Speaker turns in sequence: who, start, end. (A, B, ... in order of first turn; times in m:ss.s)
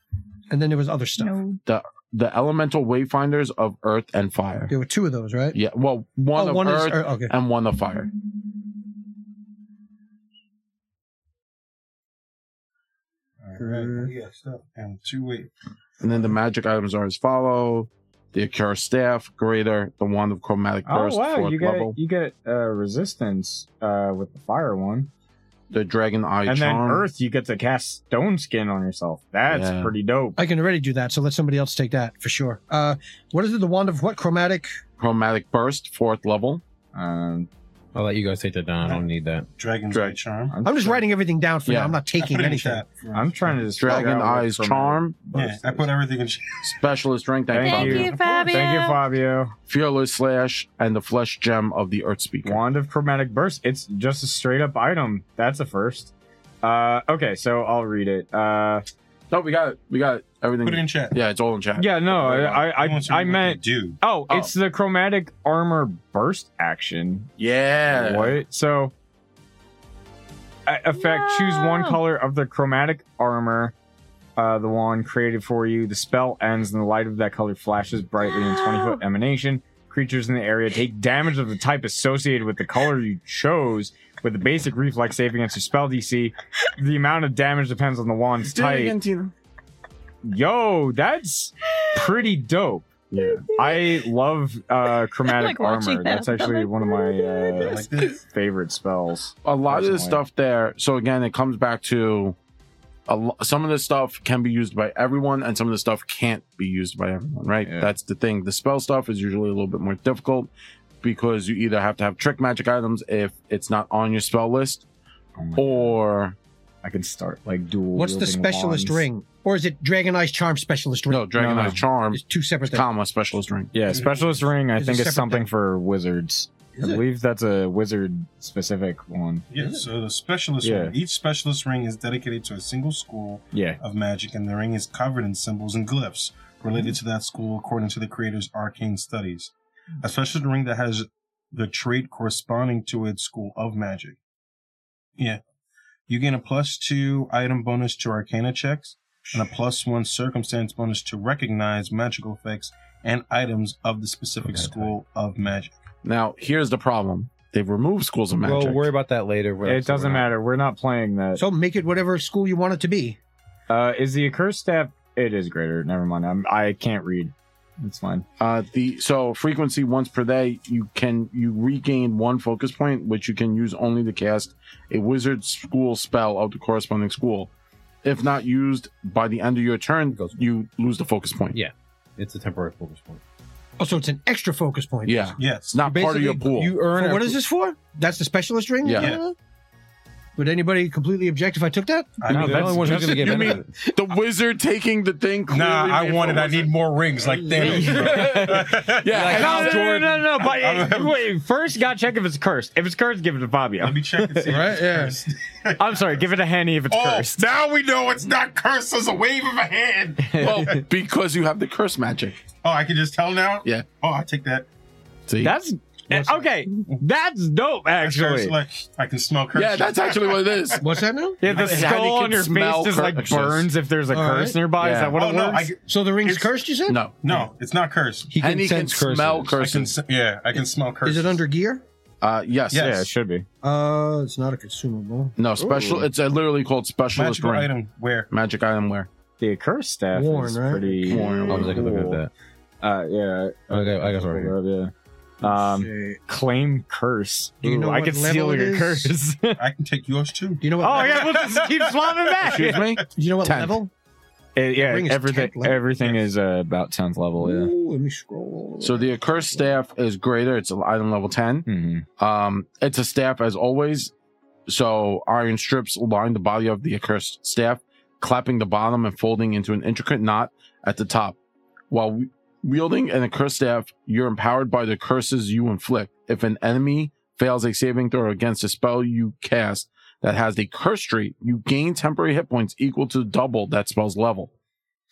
0:00.5-0:01.4 A
0:01.2-0:01.6 B
0:01.6-0:04.7 C
0:04.7-0:05.6 A
0:05.5-0:08.1 C
0:06.3-0:07.3 A
0:13.4-0:15.5 D
0:13.6-0:14.1 A
0:16.0-0:22.0 C
0:20.8-0:25.1 E
0:25.7-0:27.0 C
0:26.4-0:30.4 E
0:29.5-0:29.9 C
0:30.4-0:34.7 A
0:35.0-0:36.6 C
0:36.9-0:37.5 E
0:37.9-0:39.5 F
0:39.6-0:40.6 D
0:39.9-0:41.0 E
0:40.6-0:42.8 A
0:41.6-0:42.0 C
0:42.1-0:44.0 D
0:43.1-0:45.9 E
0:43.8-0:45.4 C
0:45.3-0:46.8 D
0:46.6-0:48.1 C
0:47.5-0:49.5 E
0:47.6-0:49.0 B
0:48.0-0:48.5 D
0:49.7-0:52.6 C
0:52.4-0:56.1 E
0:56.6-0:58.8 E
0:59.3-1:02.7 C
1:00.6-1:01.1 D
1:01.8-1:07.3 E
1:02.6-1:04.0 D
1:07.4-1:08.4 C
1:07.9-1:08.9 E
1:10.6-1:13.7 E
1:11.0-1:12.0 B
1:14.4-1:29.0 E
1:18.6-1:18.9 B
1:28.4-1:29.3 C
1:30.2-1:32.9 E
1:33.1-1:33.5 C
1:33.2-1:33.9 B
1:33.5-1:40.2 E
1:35.2-1:37.8 B
1:37.5-1:38.2 D
1:39.4-1:42.4 C
1:43.1-1:50.5 C
1:47.6-1:47.9 E
1:51.0-1:54.8 C
1:55.4-1:55.9 E
1:55.5-1:56.4 C
1:56.8-1:59.0 E
1:57.9-2:01.3 A
2:01.1-2:03.9 C
2:01.4-2:01.8 E
2:02.1-2:02.8 A
2:03.7-2:09.4 E
2:03.8-2:04.5 D
2:04.8-2:05.5 A
2:06.8-2:07.0 A
2:09.5-2:24.2 D
2:09.6-2:09.8 A
2:10.6-2:10.9 E
2:13.5-2:13.8 E
2:26.1-2:35.7 D
2:34.4-2:35.0 F
2:36.0-2:38.9 C
2:38.4-2:40.3 F
2:39.6-2:41.4 E
2:41.4-2:43.2 A
2:43.7-2:48.2 E
2:48.4-2:57.5 C
2:58.0-3:01.6 C
3:00.2-3:00.4 F
3:01.5-3:03.2 F
3:03.8-3:05.4 A
3:05.0-3:06.8 C
3:05.4-3:05.7 D
3:05.8-3:07.4 F
3:06.9-3:09.3 A
3:08.8-3:09.2 C
3:10.4-3:12.2 A
3:12.2-3:13.2 D
3:12.3-3:13.3 E
3:12.3-3:13.7 F
3:12.4-3:16.7 C
3:15.5-3:19.8 D
3:17.3-3:20.0 C
3:17.5-3:24.5 E
3:19.1-3:20.1 F
3:20.3-3:21.2 D
3:23.8-3:26.2 D
3:24.5-3:25.2 A
3:25.8-3:27.4 E
3:26.9-3:30.8 D
3:30.2-3:30.8 E
3:30.4-3:32.4 C
3:32.6-3:34.7 D
3:35.3-3:35.6 C
3:35.4-3:38.6 E
3:38.0-3:40.8 D
3:39.5-3:40.8 C
3:40.8-3:41.4 A
3:41.4-3:45.7 E
3:41.4-3:43.7 C
3:44.1-3:44.6 A
3:44.8-3:45.2 C
3:45.1-3:46.5 D
3:45.9-3:47.0 A
3:46.9-3:47.4 C
3:47.2-3:48.4 D
3:48.3-3:49.6 F
3:48.4-3:49.9 C
3:49.6-3:51.4 D
3:51.0-3:51.8 A
3:52.2-3:52.9 C
3:52.7-3:53.1 D
3:52.7-3:53.4 E
3:53.6-3:55.4 A
3:55.4-3:57.7 C
3:55.6-3:56.0 E
3:57.1-3:58.3 D
3:58.3-3:59.1 C
3:59.4-4:02.2 E
4:00.1-4:01.6 A
4:01.0-4:01.9 C
4:01.5-4:02.3 F
4:02.8-4:09.6 E
4:03.7-4:04.5 F
4:05.4-4:06.2 A
4:07.6-4:09.1 A
4:09.6-4:13.0 D
4:10.6-4:11.3 A
4:10.8-4:12.8 E
4:12.4-4:13.8 C
4:13.1-4:13.9 A
4:14.6-4:17.7 E
4:14.8-4:15.8 A
4:17.4-4:19.7 A
4:18.8-4:21.7 C
4:21.6-4:22.0 E
4:22.2-4:24.1 C
4:24.7-4:31.4 C
4:31.9-4:44.5 C